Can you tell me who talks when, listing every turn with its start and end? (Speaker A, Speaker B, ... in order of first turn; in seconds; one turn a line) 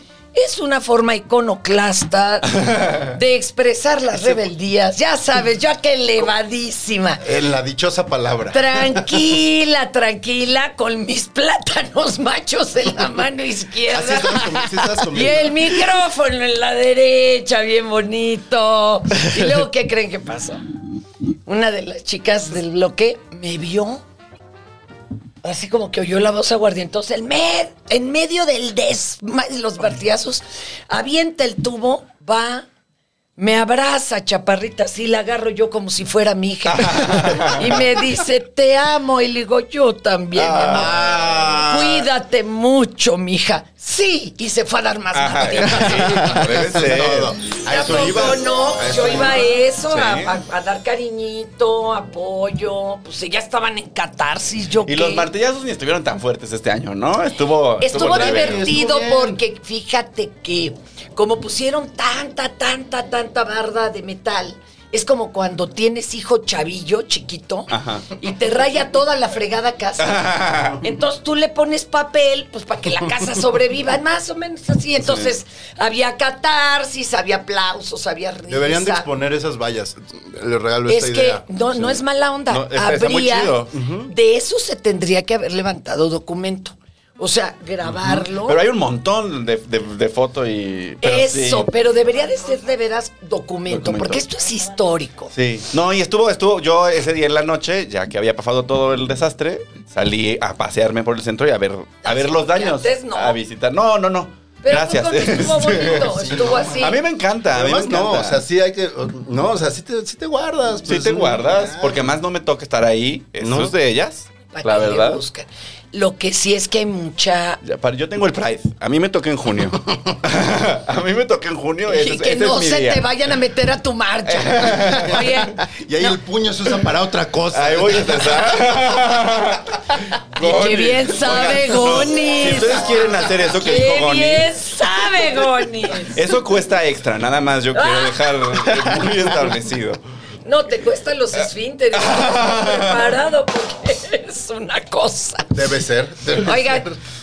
Speaker A: 0.3-7.2
Speaker B: 7.2-9.3
Speaker A: 8.5-20.6
Speaker B: 13.9-15.9
Speaker A: 21.4-24.0
Speaker A: 25.4-32.7
Speaker A: 33.4-41.0
Speaker C: 36.7-37.8
Speaker C: 40.4-41.5
Speaker B: 40.7-42.1
Speaker A: 41.5-46.4
Speaker C: 45.1-47.4
Speaker B: 45.8-49.5
Speaker A: 47.6-55.3
Speaker C: 49.9-50.3
Speaker C: 54.9-58.7
Speaker A: 57.8-70.3
Speaker B: 58.0-59.4
Speaker C: 67.7-68.1
Speaker C: 70.0-70.8
Speaker A: 70.8-79.1
Speaker C: 75.0-75.3
Speaker B: 78.5-81.5
Speaker A: 80.9-88.6
Speaker C: 82.5-83.7
Speaker B: 83.7-84.1
Speaker C: 87.9-91.7
Speaker A: 91.0-95.3
Speaker C: 93.7-94.2
Speaker C: 95.3-108.4
Speaker A: 102.0-103.4
Speaker A: 104.6-107.0
Speaker B: 105.7-107.0
Speaker B: 107.5-112.1
Speaker C: 110.9-115.2
Speaker B: 113.4-113.7
Speaker A: 114.5-117.6
Speaker C: 117.6-123.0
Speaker A: 121.8-126.2
Speaker C: 124.3-125.5
Speaker B: 125.6-128.8
Speaker C: 127.5-134.5
Speaker A: 130.4-136.2
Speaker C: 136.0-140.0
Speaker A: 137.7-138.4
Speaker B: 138.8-139.3
Speaker A: 140.4-145.6
Speaker C: 141.9-143.1
Speaker B: 145.5-146.9
Speaker A: 146.4-146.9